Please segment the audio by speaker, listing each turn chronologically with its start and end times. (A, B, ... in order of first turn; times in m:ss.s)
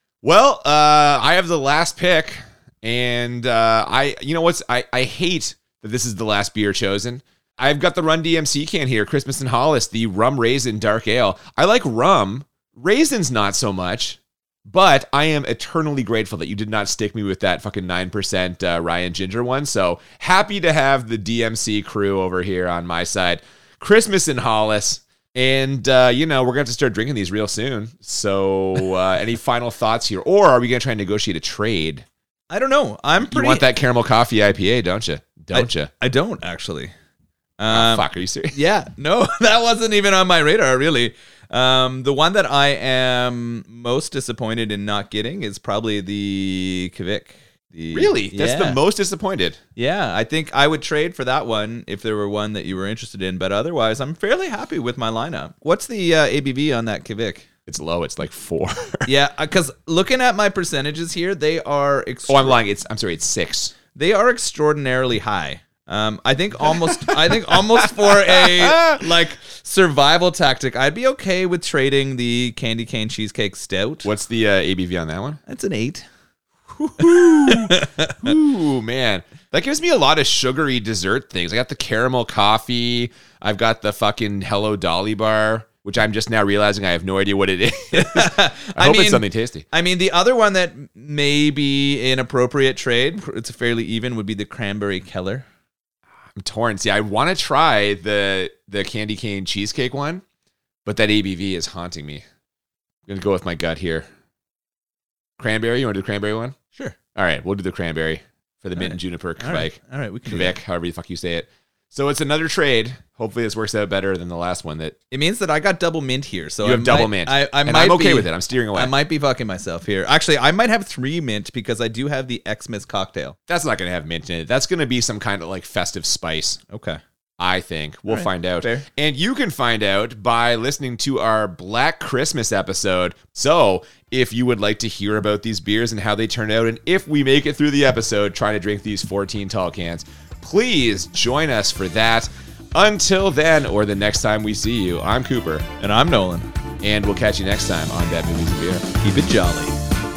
0:00.2-0:32.0 A
0:32.5-0:33.7 B
0:33.2-0:35.9 A
0:35.5-0:36.9 B
0:37.6-0:48.8 B
0:37.7-0:38.6 A
0:47.9-0:49.6 A
0:49.8-0:57.5 B
0:57.7-0:59.1 A
0:59.1-1:02.6 B
1:02.3-1:03.8 A
1:03.9-1:14.1 B
1:07.0-1:09.1 A
1:14.0-1:15.4 A
1:15.5-1:16.0 B
1:16.7-1:18.3 B
1:17.0-1:29.6 A
1:27.9-1:35.5 B
1:36.4-1:40.2 A
1:40.8-1:42.2 A
1:43.1-1:44.1 A
1:45.4-1:46.6 A
1:47.2-1:55.0 A
1:48.8-1:50.6 B
1:55.1-2:03.4 B
1:56.6-1:58.9 A
2:03.5-2:06.6 A
2:06.7-2:07.0 B
2:07.4-2:25.7 A
2:08.1-2:08.9 B
2:25.8-2:26.5 B
2:26.8-2:28.8 A
2:29.0-2:29.8 B